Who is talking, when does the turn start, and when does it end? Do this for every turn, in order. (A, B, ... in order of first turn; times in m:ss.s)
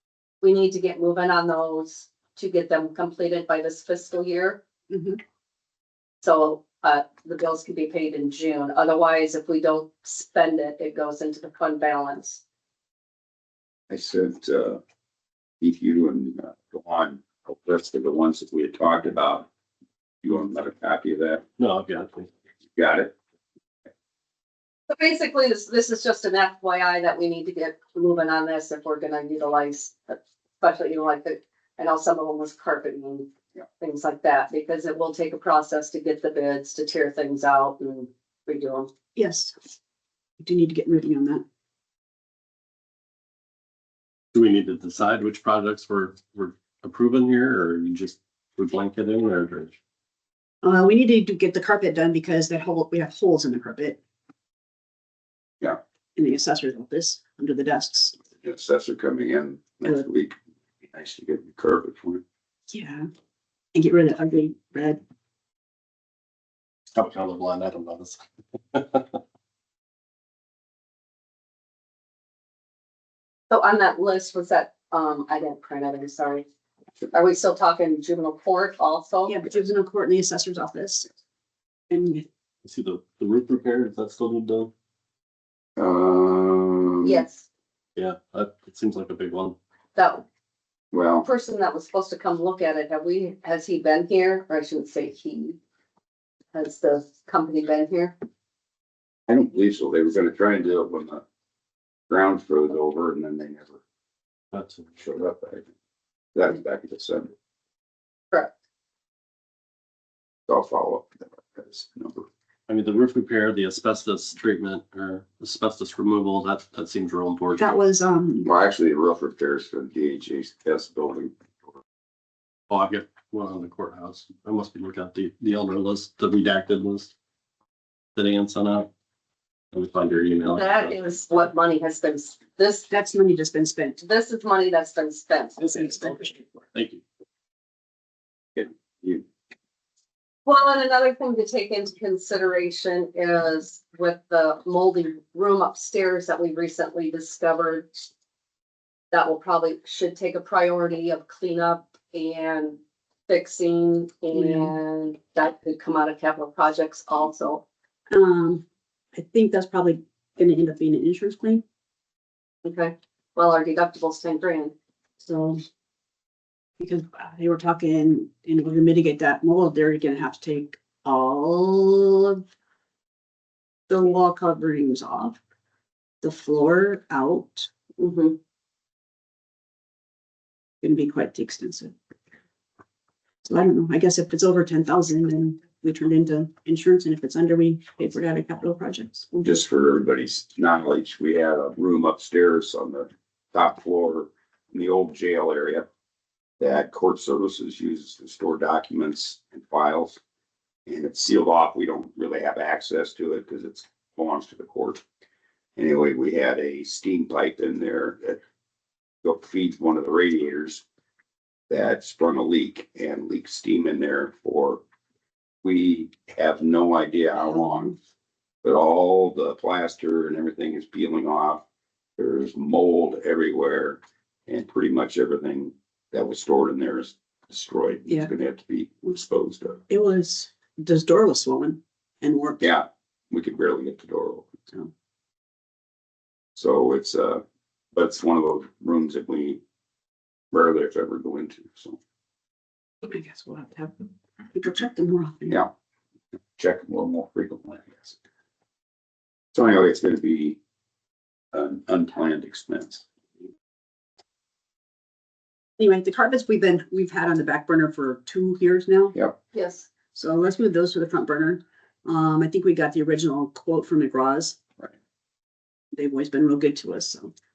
0:00.4-0:04.6 A
0:04.9-0:05.2 B
0:06.2-0:12.4 A
0:13.9-0:14.8 C
0:15.6-0:19.5 C
0:20.2-0:21.4 C
0:21.6-0:22.3 D
0:22.8-0:23.1 C
0:24.9-0:38.9 A
0:39.1-0:39.5 B
0:40.4-0:41.4 B
0:44.3-0:49.8 D
0:50.6-0:54.0 B
0:56.2-0:58.2 B
0:58.4-1:00.3 C
1:00.9-1:02.2 C
1:02.7-1:03.1 B
1:03.7-1:05.0 B
1:06.9-1:08.2 D
1:08.7-1:09.2 D
1:13.5-1:16.5 A
1:17.1-1:19.4 A
1:19.3-1:21.1 B
1:21.9-1:22.2 B
1:22.6-1:24.7 D
1:25.8-1:27.2 C
1:27.0-1:27.5 A
1:28.0-1:29.6 D
1:30.0-1:30.2 A
1:30.9-1:31.3 C
1:31.2-1:35.6 A
1:36.5-1:38.2 A
1:39.3-1:41.2 C
1:42.1-1:43.8 C
1:44.5-1:44.9 D
1:45.0-1:45.7 C
1:46.3-1:47.3 C
1:50.5-1:52.3 C
1:52.7-1:57.7 D
1:57.6-1:58.5 B
1:58.4-2:01.3 C
2:02.7-2:07.1 D
2:08.1-2:08.9 D
2:09.7-2:11.0 D
2:10.4-2:12.9 A
2:12.9-2:14.0 B
2:14.0-2:15.9 A
2:15.8-2:16.3 B
2:15.8-2:17.0 D
2:18.6-2:19.2 C
2:20.4-2:27.9 A
2:29.1-2:37.6 A
2:34.3-2:34.7 B
2:38.1-2:41.6 B
2:42.6-2:44.7 A
2:45.2-2:45.6 B
2:46.8-2:52.4 B
2:53.9-2:55.4 B
2:56.2-2:57.7 B
2:58.0-2:58.4 A
3:00.8-3:01.9 B
3:03.4-3:09.6 B
3:09.4-3:15.8 C
3:16.6-3:20.2 C
3:20.8-3:25.0 C
3:25.8-3:28.4 C
3:29.2-3:30.8 C
3:31.7-3:34.8 C
3:35.6-3:38.0 C
3:38.6-3:41.6 C
3:42.2-3:49.8 C
3:49.9-3:52.6 B
3:52.6-3:54.5 C
3:56.6-3:57.4 C
3:57.9-3:59.6 C
4:00.5-4:02.0 C
4:03.0-4:05.6 B
4:06.6-4:08.2 C
4:09.5-4:10.6 C
4:11.5-4:13.0 C
4:15.8-4:19.1 B
4:19.5-4:19.9 A
4:20.1-4:24.6 B
4:25.9-4:27.3 B